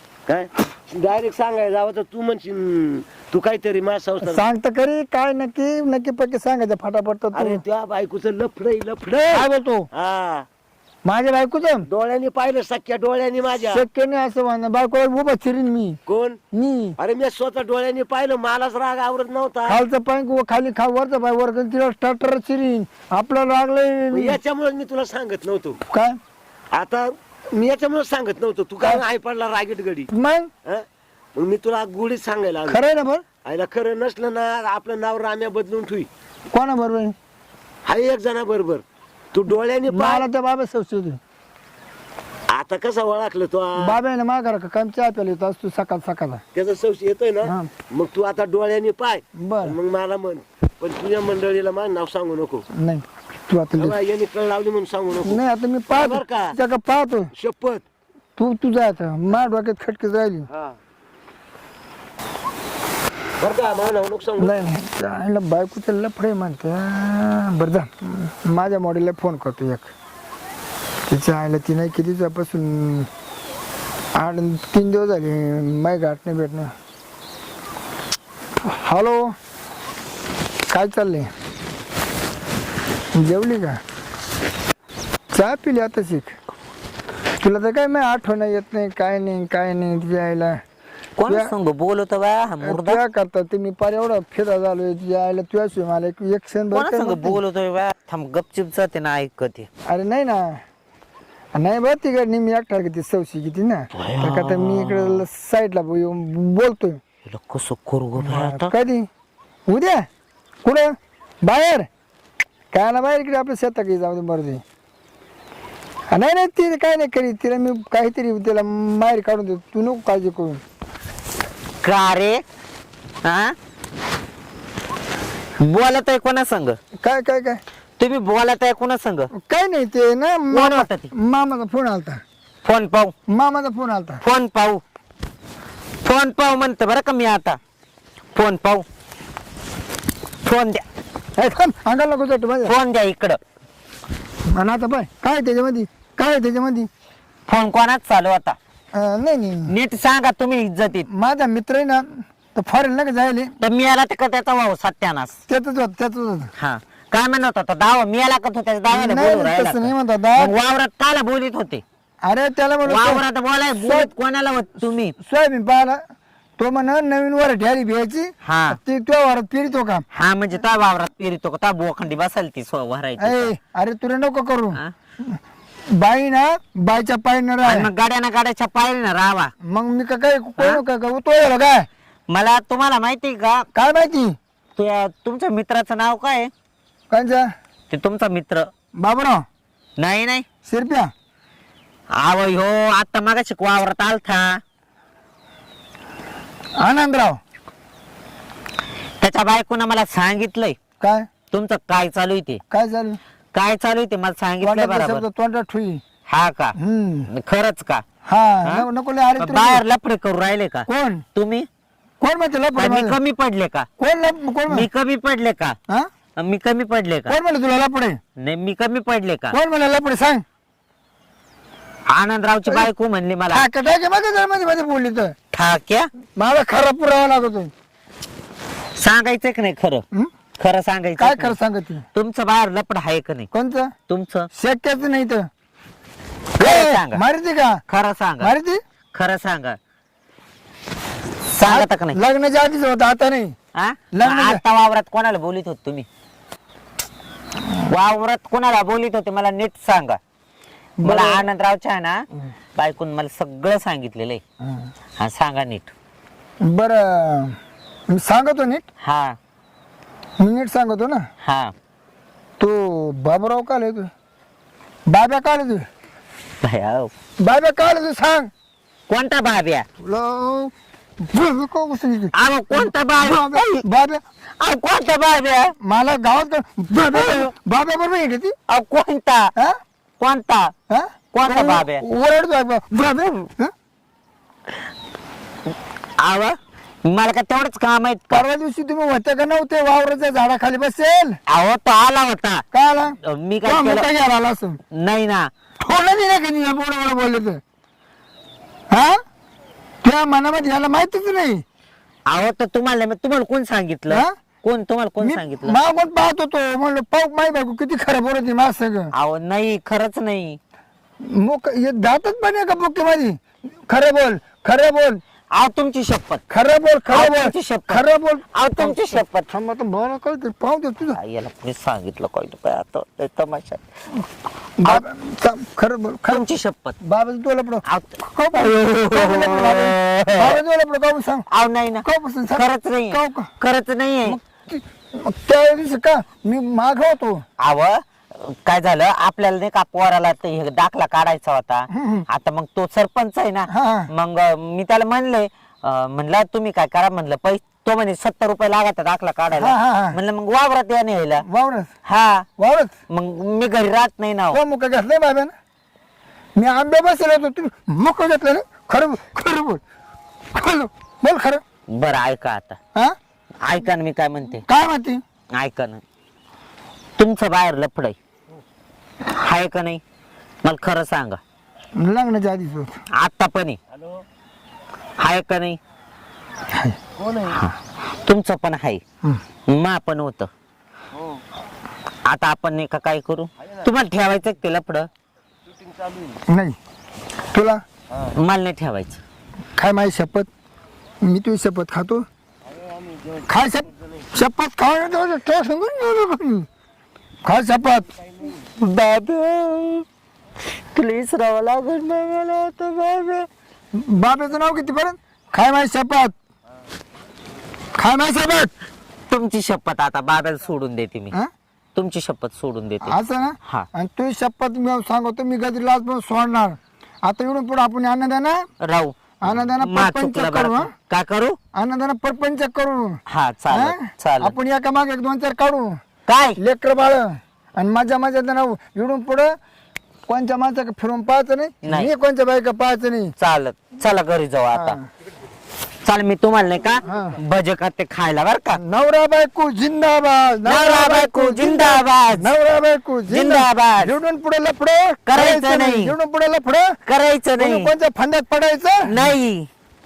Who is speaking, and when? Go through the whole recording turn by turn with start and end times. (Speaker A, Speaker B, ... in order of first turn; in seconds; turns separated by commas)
Speaker A: 0.3-4.5, Speaker B: 4.2-7.6, Speaker A: 7.3-10.4, Speaker B: 9.3-9.9, Speaker B: 11.0-11.9, Speaker A: 11.8-13.8, Speaker B: 13.6-16.0, Speaker A: 16.1-16.4, Speaker B: 16.5-17.0, Speaker A: 17.0-19.8, Speaker B: 19.6-24.4, Speaker A: 24.1-25.8, Speaker B: 25.8-26.2, Speaker A: 26.7-30.1, Speaker B: 30.1-30.5, Speaker A: 31.4-32.8, Speaker B: 32.6-33.2, Speaker A: 33.4-36.1, Speaker B: 36.5-37.1, Speaker A: 37.9-40.3, Speaker B: 39.9-41.2, Speaker A: 42.5-44.0, Speaker B: 43.8-46.4, Speaker A: 46.5-52.6, Speaker B: 47.4-47.7, Speaker B: 49.4-49.8, Speaker B: 52.7-54.0, Speaker A: 53.8-56.6, Speaker B: 55.2-57.3, Speaker A: 57.3-57.8, Speaker B: 58.4-60.5, Speaker A: 60.5-60.8, Speaker A: 63.4-64.6, Speaker B: 64.4-69.9, Speaker B: 71.1-73.1, Speaker B: 74.1-76.7, Speaker B: 78.7-79.3, Speaker B: 80.7-81.3, Speaker B: 83.1-83.8, Speaker B: 85.3-86.3, Speaker B: 87.4-90.6, Speaker C: 91.2-93.0, Speaker B: 91.3-91.5, Speaker B: 92.6-97.4, Speaker C: 96.7-99.7, Speaker B: 99.9-100.6, Speaker B: 101.5-107.0, Speaker C: 103.9-105.2, Speaker C: 107.2-108.7, Speaker B: 108.2-109.1, Speaker B: 109.7-110.0, Speaker B: 110.6-110.9, Speaker B: 111.4-111.9, Speaker B: 112.7-114.6, Speaker B: 116.1-120.6, Speaker C: 121.8-122.4, Speaker C: 123.2-123.5, Speaker C: 125.6-126.8, Speaker B: 127.0-127.6, Speaker C: 128.0-129.3, Speaker B: 129.3-132.2, Speaker C: 130.5-131.1, Speaker C: 132.6-133.1, Speaker B: 133.3-134.2, Speaker C: 134.2-134.8, Speaker C: 136.0-137.6, Speaker C: 138.3-138.8, Speaker C: 140.4-140.8, Speaker B: 141.4-142.7, Speaker C: 142.6-143.4, Speaker B: 144.5-146.9, Speaker C: 147.4-148.6, Speaker B: 148.9-149.7, Speaker C: 149.7-151.1, Speaker B: 151.1-153.5, Speaker C: 153.6-155.4, Speaker B: 155.5-156.5, Speaker C: 156.6-161.8, Speaker B: 158.9-160.5, Speaker B: 162.2-164.1, Speaker C: 162.8-165.1, Speaker B: 165.2-166.0, Speaker B: 166.6-170.0, Speaker C: 168.4-168.8, Speaker C: 170.1-173.5, Speaker B: 173.2-175.4, Speaker B: 175.9-177.9, Speaker C: 177.6-179.5, Speaker B: 179.6-181.9, Speaker C: 180.6-180.8, Speaker C: 182.3-183.7, Speaker B: 183.7-184.3, Speaker C: 184.8-186.5, Speaker B: 187.1-187.4, Speaker C: 187.9-188.7, Speaker B: 188.9-189.4, Speaker C: 190.0-190.4, Speaker B: 190.6-191.1, Speaker C: 192.1-194.6, Speaker B: 196.8-197.4, Speaker C: 199.2-200.8, Speaker B: 201.0-201.2, Speaker C: 201.5-202.6, Speaker B: 202.7-203.2, Speaker C: 203.5-205.2, Speaker B: 204.6-206.0, Speaker C: 206.2-206.8, Speaker B: 206.8-207.3, Speaker C: 207.3-208.0, Speaker B: 208.2-209.8, Speaker C: 208.6-211.7, Speaker B: 210.9-211.2, Speaker B: 212.2-213.2, Speaker C: 212.7-213.9, Speaker B: 214.0-214.9, Speaker C: 214.7-215.8, Speaker C: 216.4-217.4, Speaker B: 217.3-218.2, Speaker C: 218.4-219.6, Speaker B: 219.5-220.4, Speaker C: 222.1-223.7, Speaker B: 223.5-225.3, Speaker C: 225.5-226.1, Speaker B: 226.3-227.7, Speaker C: 228.9-230.0, Speaker C: 230.6-231.6, Speaker B: 231.2-232.0, Speaker C: 232.1-233.5, Speaker B: 233.5-233.9, Speaker C: 234.1-234.5, Speaker B: 234.5-235.5, Speaker C: 236.6-237.2, Speaker B: 236.6-237.8, Speaker C: 237.9-238.5, Speaker B: 238.4-238.8, Speaker C: 239.1-239.8, Speaker C: 241.6-242.2, Speaker B: 241.6-243.5, Speaker C: 243.8-246.1, Speaker B: 244.1-244.6, Speaker C: 247.8-250.2, Speaker B: 251.0-251.4, Speaker C: 251.0-252.2, Speaker C: 252.8-254.4, Speaker B: 254.6-254.9, Speaker C: 255.2-255.9, Speaker B: 256.6-257.5, Speaker B: 258.1-258.9, Speaker C: 259.0-259.4, Speaker B: 260.4-261.2, Speaker C: 261.4-261.7, Speaker B: 262.6-264.1, Speaker B: 265.1-265.9, Speaker C: 266.6-267.1, Speaker B: 267.4-268.5, Speaker C: 269.1-269.9, Speaker B: 270.0-270.7, Speaker B: 271.2-274.2, Speaker C: 272.3-273.8, Speaker C: 274.6-275.7, Speaker B: 275.8-278.6, Speaker C: 277.1-277.5, Speaker C: 278.7-279.5, Speaker C: 280.2-280.7, Speaker B: 280.9-283.7, Speaker C: 281.3-282.0, Speaker C: 286.2-288.5, Speaker B: 288.3-291.4, Speaker C: 291.5-292.6, Speaker B: 292.7-294.8, Speaker C: 293.2-294.1, Speaker C: 294.9-295.5, Speaker B: 295.8-297.6, Speaker B: 298.9-299.2, Speaker B: 300.0-301.6, Speaker C: 302.3-305.8, Speaker B: 304.1-304.3, Speaker B: 305.2-309.1, Speaker C: 309.1-310.6, Speaker B: 311.2-315.2, Speaker C: 315.5-316.4, Speaker B: 316.5-321.2, Speaker C: 317.1-319.5, Speaker C: 321.1-323.8, Speaker B: 324.8-326.4, Speaker C: 326.3-327.0, Speaker B: 327.0-331.4, Speaker C: 327.8-330.6, Speaker C: 331.5-334.4, Speaker B: 332.0-333.5, Speaker B: 334.2-337.4, Speaker C: 337.6-351.4, Speaker B: 341.9-342.2, Speaker B: 343.7-344.1, Speaker B: 349.5-350.2, Speaker B: 351.4-351.9, Speaker C: 352.1-352.5, Speaker B: 352.6-352.9, Speaker C: 353.1-354.6, Speaker B: 354.5-355.5, Speaker B: 356.6-359.8, Speaker B: 360.5-361.6, Speaker C: 361.9-362.8, Speaker C: 363.6-364.6, Speaker B: 364.6-365.2, Speaker C: 365.5-366.0, Speaker C: 367.2-368.2, Speaker C: 369.3-370.0, Speaker C: 370.6-371.4, Speaker B: 371.9-373.0, Speaker C: 373.1-373.8, Speaker A: 373.9-374.2, Speaker C: 375.2-375.8, Speaker A: 377.1-377.6, Speaker C: 377.5-379.0, Speaker C: 379.7-380.5, Speaker C: 382.2-385.1, Speaker A: 385.7-386.4, Speaker B: 386.5-386.8, Speaker B: 387.5-387.8, Speaker C: 388.3-389.2, Speaker B: 389.8-390.5, Speaker B: 391.2-392.2, Speaker A: 392.7-393.5, Speaker B: 393.5-396.7, Speaker B: 397.4-398.1, Speaker C: 398.8-400.0, Speaker C: 400.9-403.5, Speaker B: 403.9-406.3, Speaker B: 407.9-408.7, Speaker C: 409.3-411.4, Speaker C: 411.9-413.9, Speaker B: 413.0-418.6, Speaker C: 418.8-421.6, Speaker B: 419.4-420.9, Speaker B: 421.7-426.0, Speaker C: 423.3-424.6, Speaker C: 426.2-426.6, Speaker B: 426.6-429.5, Speaker B: 430.3-433.3, Speaker C: 431.8-432.1, Speaker C: 433.4-435.0, Speaker B: 434.7-435.0, Speaker C: 436.0-438.8, Speaker B: 437.0-437.4, Speaker B: 438.8-446.9, Speaker C: 440.6-442.5, Speaker C: 443.3-444.1, Speaker C: 445.3-446.1, Speaker C: 447.0-447.9, Speaker B: 447.6-449.3, Speaker C: 449.1-449.7